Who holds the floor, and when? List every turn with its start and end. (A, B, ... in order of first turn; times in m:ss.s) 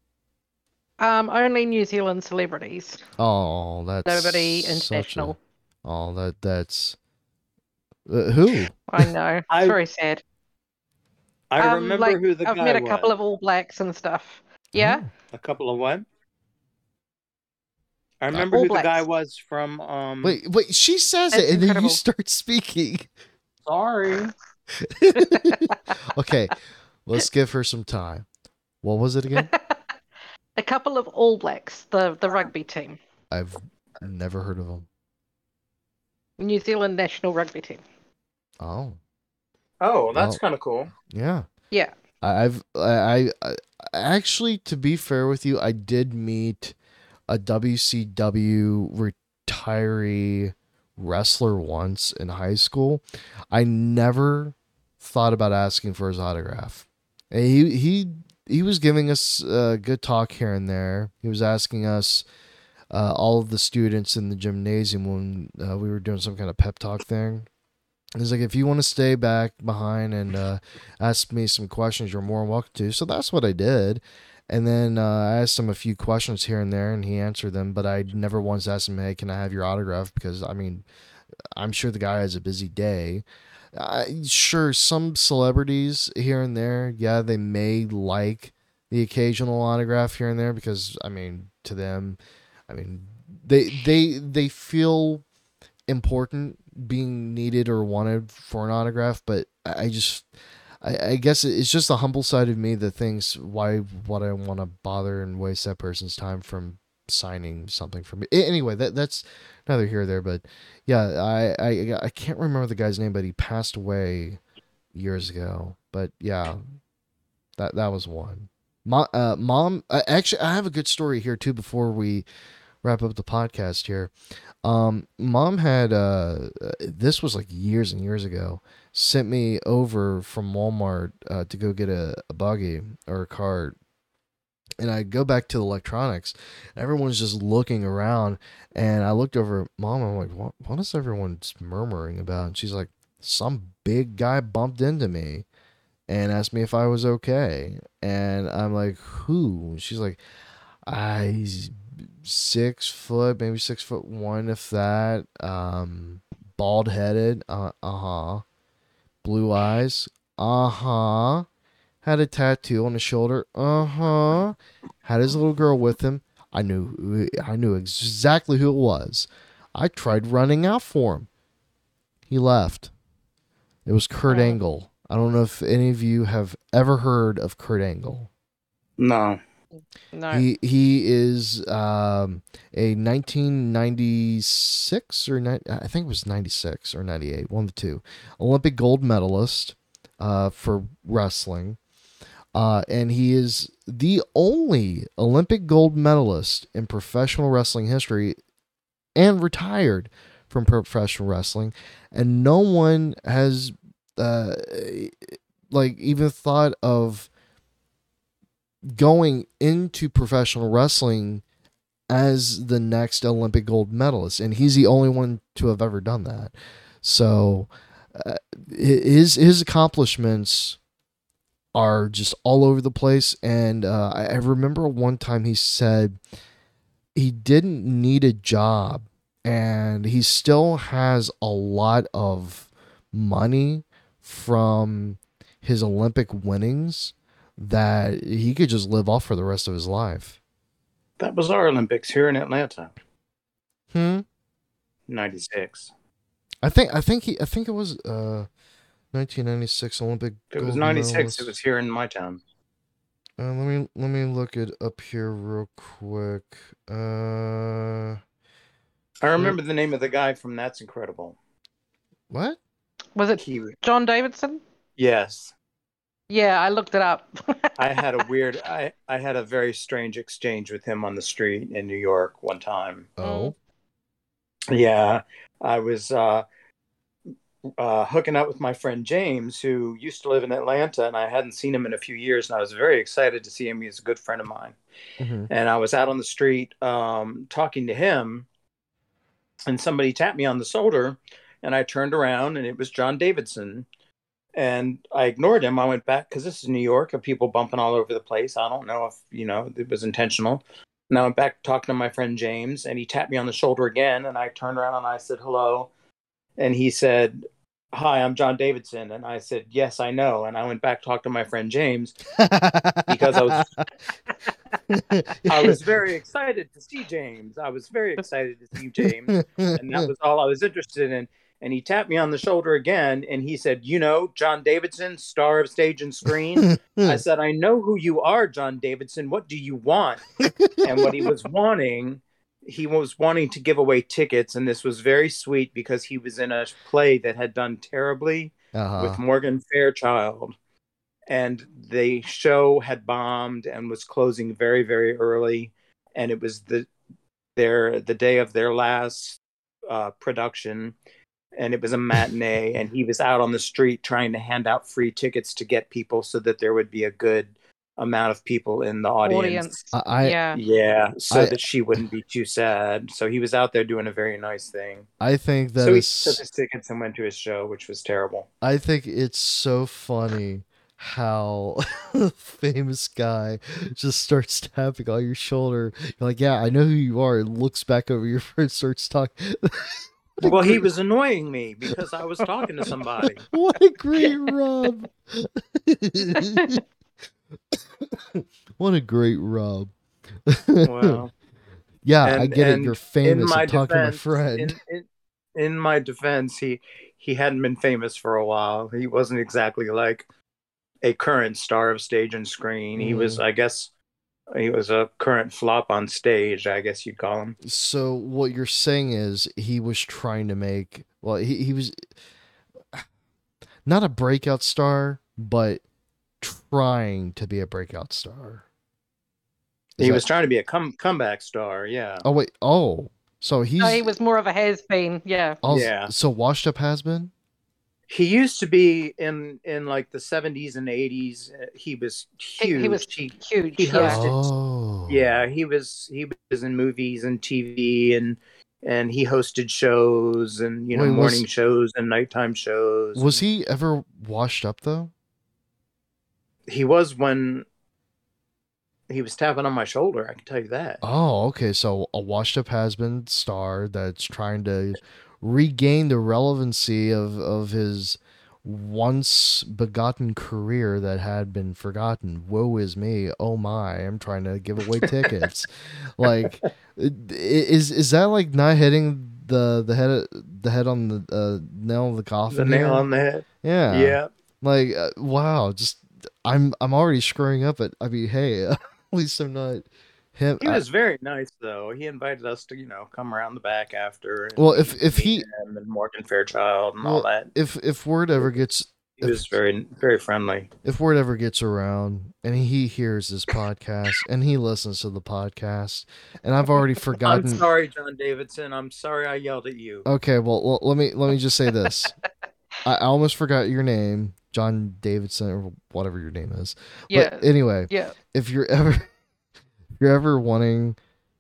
0:01.0-0:03.0 A
0:03.2-0:07.0 B
0:04.1-0:05.4 A
0:08.1-0:09.1 B
0:08.9-0:10.2 A
0:09.5-0:09.8 C
0:11.5-0:13.2 C
0:11.6-0:15.0 A
0:14.7-0:15.1 B
0:15.3-0:16.0 C
0:18.2-0:20.4 C
0:18.4-0:19.0 A
0:20.2-0:23.1 B
0:21.3-0:22.0 A
0:23.6-0:24.3 C
0:24.8-0:28.3 B
0:25.2-0:25.8 A
0:28.8-0:29.5 B
0:29.3-0:30.0 A
0:30.6-0:33.0 A
0:33.3-0:34.9 B
0:36.4-0:37.8 A
0:38.6-0:39.0 B
0:39.8-0:40.9 C
0:40.1-0:40.4 B
0:41.1-0:41.5 B
0:42.2-0:46.7 B
0:47.3-1:02.2 B
1:02.9-1:07.5 B
1:08.2-1:20.8 B
1:21.6-1:32.2 B
1:32.7-1:35.2 B
1:35.9-1:40.3 B
1:40.8-1:54.4 B
1:54.9-1:56.6 B
1:57.6-2:02.2 B
2:02.8-2:04.1 B
2:04.6-2:13.8 B
2:14.8-2:25.4 B
2:26.1-2:30.2 B
2:30.8-2:38.4 B
2:39.2-2:41.4 B
2:42.0-2:51.3 B
2:52.3-2:52.9 B
2:53.8-2:58.3 B
2:54.3-2:54.6 A
2:59.0-2:59.4 C
3:00.1-3:00.4 A
3:00.3-3:11.8 B
3:12.6-3:18.4 B
3:19.2-3:27.3 B
3:28.9-3:31.4 B
3:32.1-3:40.8 B
3:41.7-3:46.2 B
3:47.2-4:00.4 B
4:01.2-4:02.9 C
4:03.9-4:04.2 B
4:05.1-4:05.9 C
4:06.6-4:08.5 B
4:09.1-4:11.6 B
4:10.5-4:12.4 C
4:13.4-4:18.2 B
4:19.2-4:21.4 C
4:22.3-4:22.6 B
4:23.2-4:24.6 A
4:23.4-4:23.7 C
4:25.0-4:25.5 C
4:26.3-4:28.2 A
4:27.8-4:33.1 C
4:33.2-4:33.6 B
4:33.2-4:33.6 A
4:34.7-4:36.4 C
4:37.8-4:44.8 C
4:45.2-4:45.5 B
4:45.5-4:48.4 C
4:49.7-4:53.8 C
4:54.6-5:05.9 C
5:06.6-5:12.2 C
5:12.4-5:13.9 B
5:13.1-5:13.7 C
5:14.9-5:15.8 B
5:15.5-5:30.3 C
5:19.3-5:20.1 B
5:26.6-5:27.2 B
5:30.4-5:31.3 B
5:30.8-5:40.5 C
5:38.7-5:39.2 B
5:41.3-5:46.9 C
5:47.6-5:50.9 C
5:51.6-5:59.8 C
5:59.2-6:00.6 A
5:59.9-6:00.4 B
6:00.5-6:05.1 C
6:01.3-6:01.6 B
6:05.2-6:06.4 B
6:05.8-6:08.5 C
6:08.6-6:20.9 B
6:20.4-6:23.5 C
6:23.3-6:26.8 B
6:26.4-6:26.8 A
6:27.7-6:29.9 B
6:30.5-6:31.2 B
6:30.8-6:31.3 C
6:32.0-6:34.8 B
6:32.2-6:40.3 C
6:41.0-6:43.9 C
6:43.0-6:43.4 B
6:44.5-6:47.6 C
6:47.6-6:52.1 B
6:53.8-6:55.8 B
6:56.4-6:58.6 B
7:00.0-7:00.2 B
7:00.0-7:02.3 C
7:02.2-7:04.1 B
7:03.8-7:05.6 A
7:05.6-7:07.3 B
7:05.7-7:06.1 C
7:08.1-7:14.5 C
7:12.6-7:14.2 A
7:13.9-7:15.4 B
7:15.1-7:23.4 C
7:20.9-7:21.4 B
7:23.2-7:25.1 B
7:26.7-7:27.6 C
7:29.1-7:31.0 C
7:31.0-7:53.0 B
7:52.5-7:54.3 C
7:53.6-8:00.8 B
8:00.6-8:07.5 C
8:04.6-8:05.4 B
8:07.0-8:09.5 B
8:09.2-8:10.7 C
8:10.8-8:17.6 B
8:17.2-8:20.1 C
8:20.1-8:22.1 B
8:22.8-8:29.1 B
8:27.1-8:28.2 A
8:30.0-8:31.0 B